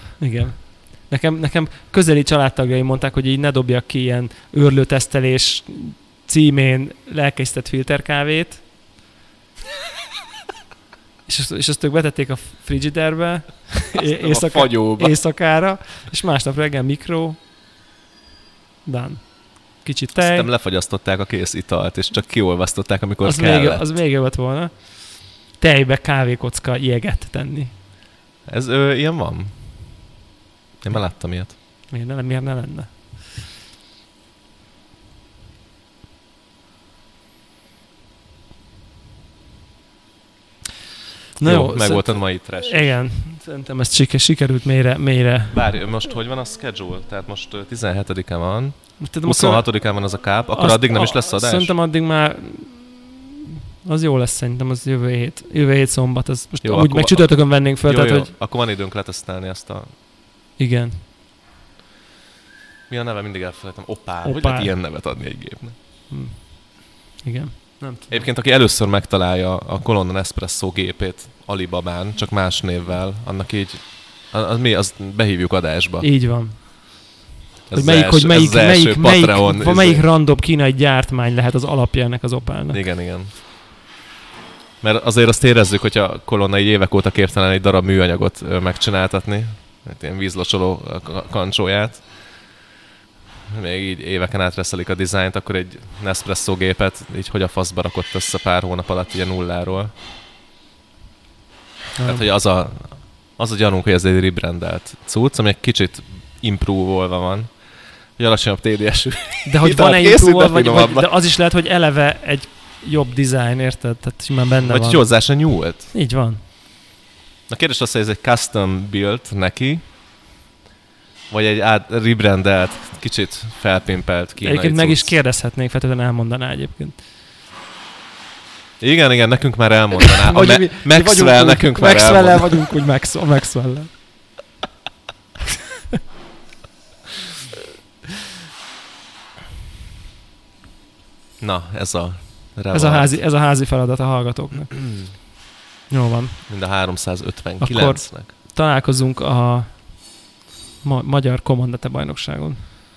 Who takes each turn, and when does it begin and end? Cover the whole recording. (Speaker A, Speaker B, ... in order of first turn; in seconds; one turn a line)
Speaker A: 0.2-8.6
Speaker A: 11.3-17.4
Speaker B: 13.9-15.2
Speaker A: 18.9-20.5
Speaker B: 20.1-23.8
Speaker A: 23.2-27.7
Speaker B: 28.5-29.5
Speaker B: 30.8-31.6
Speaker A: 31.9-32.9
Speaker A: 41.4-45.6
Speaker B: 41.4-42.8
Speaker B: 45.5-51.7
Speaker A: 49.0-49.7
Speaker A: 50.5-58.3
Speaker B: 56.6-59.9
Speaker A: 60.6-61.0
Speaker B: 62.9-65.7
Speaker A: 64.2-64.7
Speaker A: 66.1-68.2
Speaker B: 68.1-76.1
Speaker A: 76.0-77.0
Speaker B: 77.7-80.0
Speaker A: 77.7-82.8
Speaker B: 82.7-83.3
Speaker B: 84.8-92.1
Speaker B: 93.5-99.9
Speaker A: 102.0-102.2
Speaker B: 102.0-107.5
Speaker B: 108.2-111.1
Speaker A: 109.5-115.0
Speaker B: 114.6-115.9
Speaker A: 115.9-116.4
Speaker B: 117.5-119.8
Speaker B: 121.3-125.1
Speaker A: 124.4-127.0
Speaker B: 128.8-132.7
Speaker A: 130.1-133.9
Speaker B: 141.4-143.2
Speaker A: 142.7-144.8
Speaker A: 145.9-146.4
Speaker B: 146.5-148.3
Speaker A: 147.6-150.0
Speaker A: 150.8-152.6